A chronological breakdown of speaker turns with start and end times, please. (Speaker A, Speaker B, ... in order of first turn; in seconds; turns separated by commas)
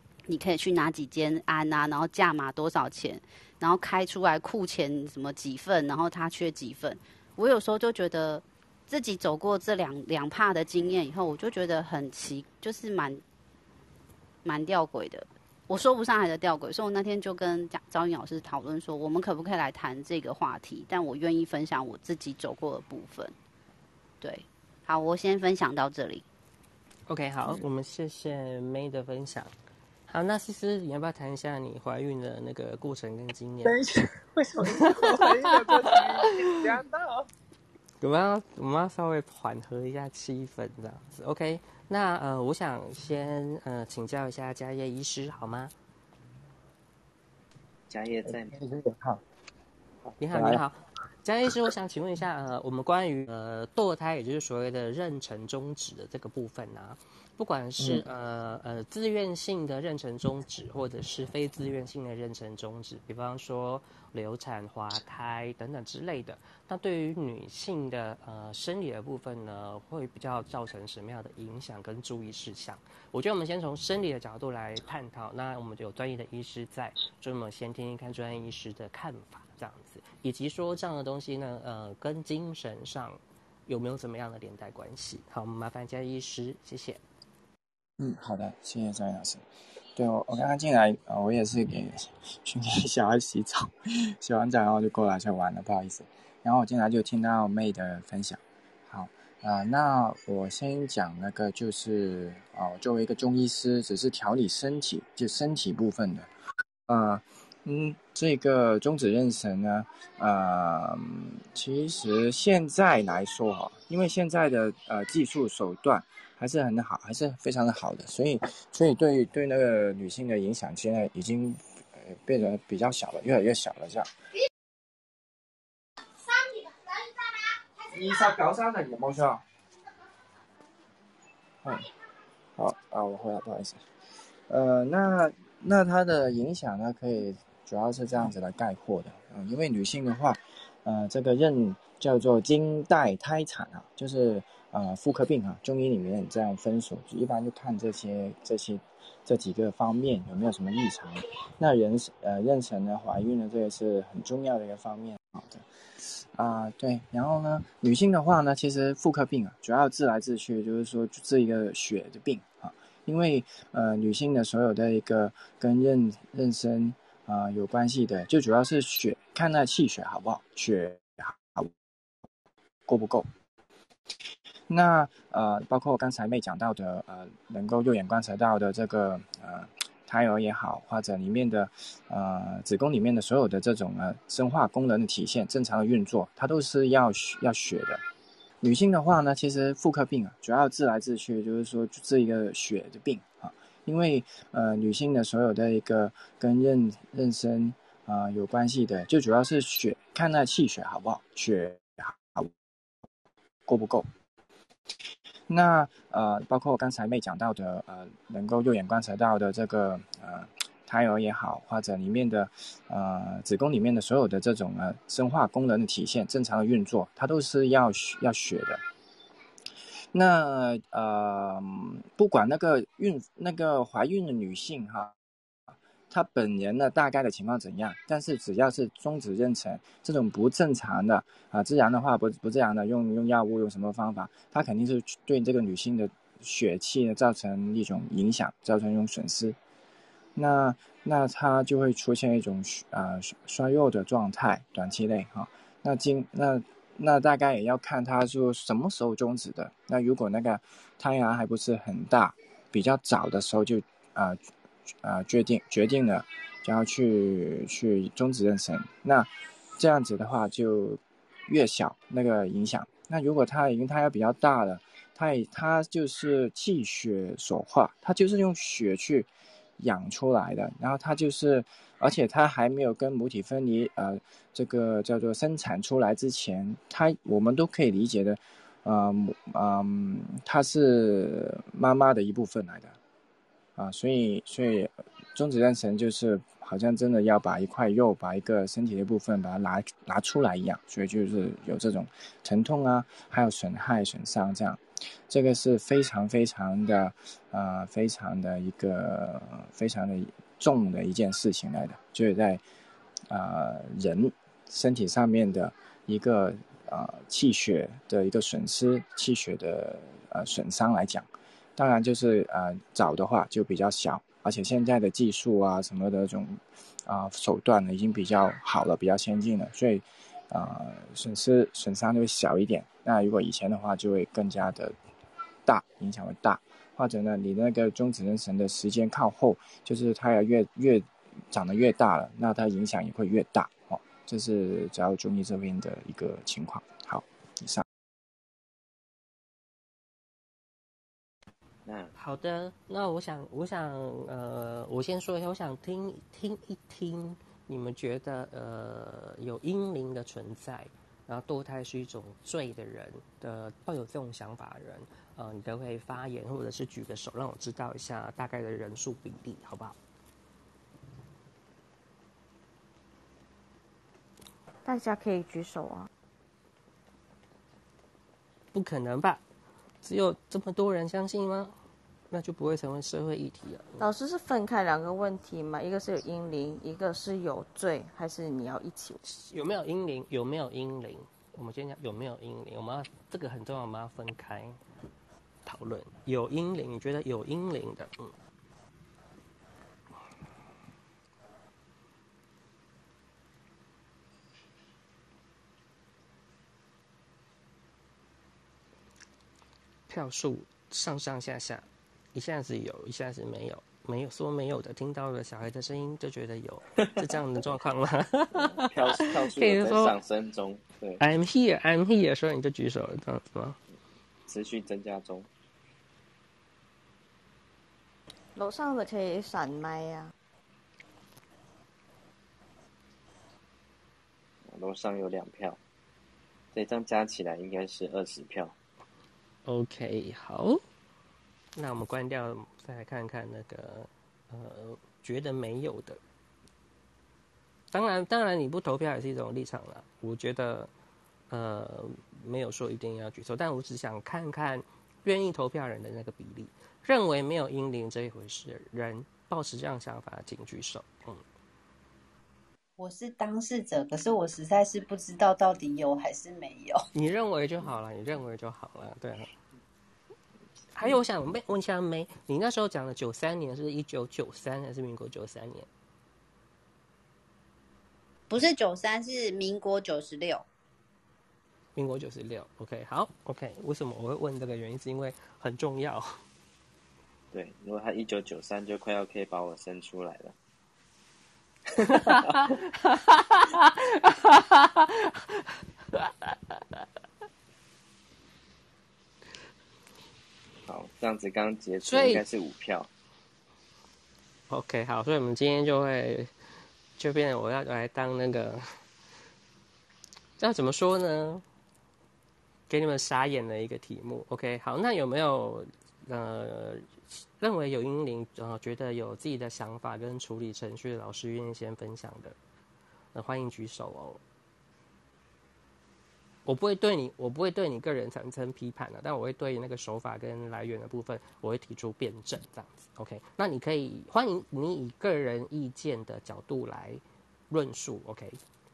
Speaker A: 0.3-13.2, Speaker A: 14.4-23.3, Speaker A: 24.2-26.2, Speaker B: 27.1-29.5, Speaker B: 30.1-33.9, Speaker B: 34.6-36.8, Speaker B: 38.0-45.7, Speaker C: 47.9-48.5, Speaker D: 48.5-49.1, Speaker B: 50.2-87.0, Speaker D: 50.3-50.6, Speaker D: 88.0-89.4, Speaker D: 90.0-106.3, Speaker D: 106.9-124.1, Speaker D: 127.8-129.4, Speaker D: 132.6-133.8, Speaker D: 134.5-171.7, Speaker D: 172.9-173.3, Speaker D: 174.7-188.0, Speaker D: 188.6-202.5, Speaker D: 203.7-204.1, Speaker D: 205.5-218.8, Speaker D: 220.1-225.2, Speaker D: 226.1-239.6, Speaker D: 240.4-254.4, Speaker D: 255.0-282.9, Speaker D: 283.8-302.6, Speaker D: 303.3-325.0, Speaker D: 325.7-337.9, Speaker C: 341.9-342.1, Speaker B: 342.2-360.0, Speaker E: 364.9-366.1, Speaker B: 368.7-369.4, Speaker B: 370.0-371.7, Speaker B: 372.3-374.0, Speaker E: 374.0-379.2, Speaker B: 379.3-384.8, Speaker B: 385.7-388.3, Speaker B: 400.1-410.1, Speaker C: 408.6-411.2, Speaker B: 411.2-413.8, Speaker C: 414.5-415.5, Speaker E: 418.6-420.3, Speaker C: 424.7-425.8, Speaker C: 426.7-428.7, Speaker B: 429.7-430.8, Speaker B: 431.8-436.2, Speaker B: 437.9-440.9, Speaker B: 441.5-451.4, Speaker A: 453.0-457.1, Speaker B: 457.1-459.5, Speaker B: 460.9-465.9, Speaker A: 468.5-470.6, Speaker B: 472.0-476.4, Speaker C: 477.5-480.6, Speaker C: 482.0-482.8, Speaker B: 483.0-487.0, Speaker C: 490.9-493.1, Speaker B: 492.1-492.4, Speaker B: 494.7-496.5, Speaker B: 497.2-498.8, Speaker B: 500.6-501.6, Speaker B: 502.9-512.5, Speaker B: 513.3-514.4, Speaker B: 516.7-528.6